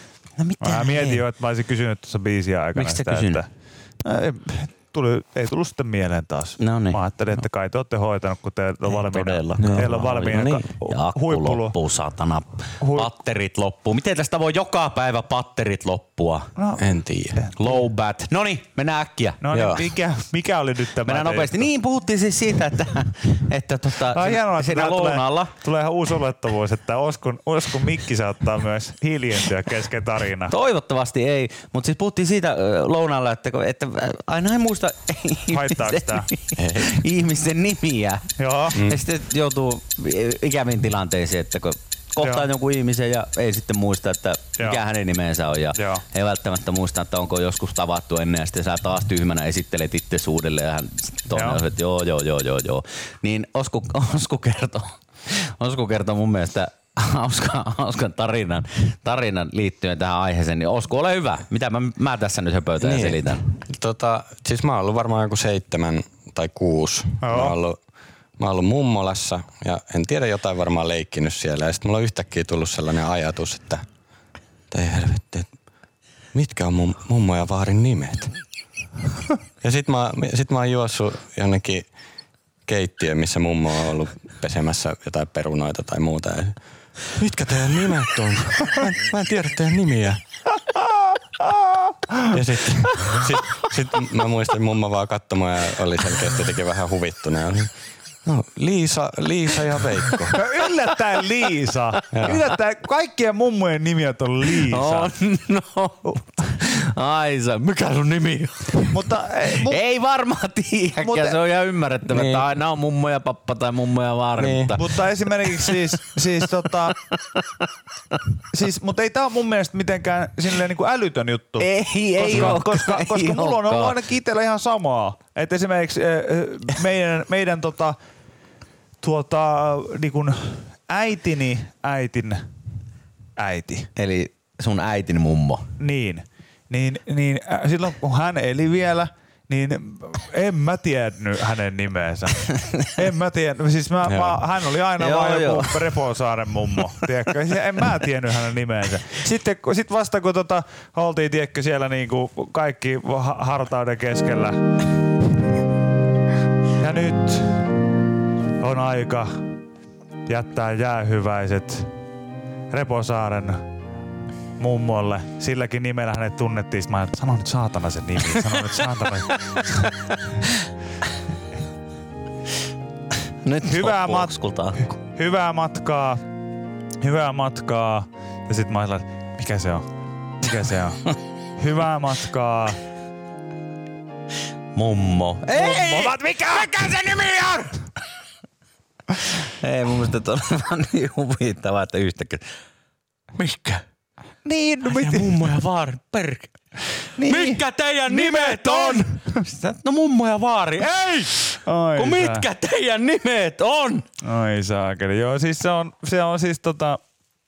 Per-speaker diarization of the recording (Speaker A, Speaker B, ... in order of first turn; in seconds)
Speaker A: 0.4-1.2, 2.7-3.4, 6.6-7.0, 8.8-16.5, 17.6-19.4, 21.1-25.5, 30.5-63.4, 104.7-108.9, 109.6-114.9, 115.6-116.0, 121.6-124.0, 133.9-135.7, 142.5-142.9, 145.0-145.9, 173.4-174.9, 184.7-187.7, 189.4-192.4, 193.4-193.8, 194.8-196.5, 197.2-204.0
Speaker B: 0.6-3.5, 4.0-11.8, 12.8-13.1, 16.6-17.8, 19.4-21.7, 24.1-30.5, 35.5-36.3, 38.4-38.8, 42.2-42.5, 45.8-46.0, 51.3-51.6, 67.2-67.5, 91.4-92.3, 100.3-105.1, 108.8-109.8, 111.0-111.4, 114.8-116.9, 118.5-128.0, 129.0-132.5, 133.4-133.9, 135.8-154.6, 156.8-157.7, 158.6-159.4, 160.3-161.9, 162.7-163.7, 164.6-170.4, 173.6-176.2, 177.0-179.9, 180.4-181.0, 181.6-182.8, 185.5-187.0, 194.4-195.4, 197.2-199.4, 200.8-202.5, 204.2-207.0
Speaker C: 9.6-9.9, 16.8-17.4, 19.5-19.8, 36.6-37.0, 38.7-39.0, 62.8-67.8, 68.4-73.8, 74.7-75.5, 76.3-78.3, 79.6-81.9, 82.7-90.2, 92.3-97.7, 98.2-100.4, 102.1-102.4, 112.1-112.4, 114.4-114.7, 144.1-144.4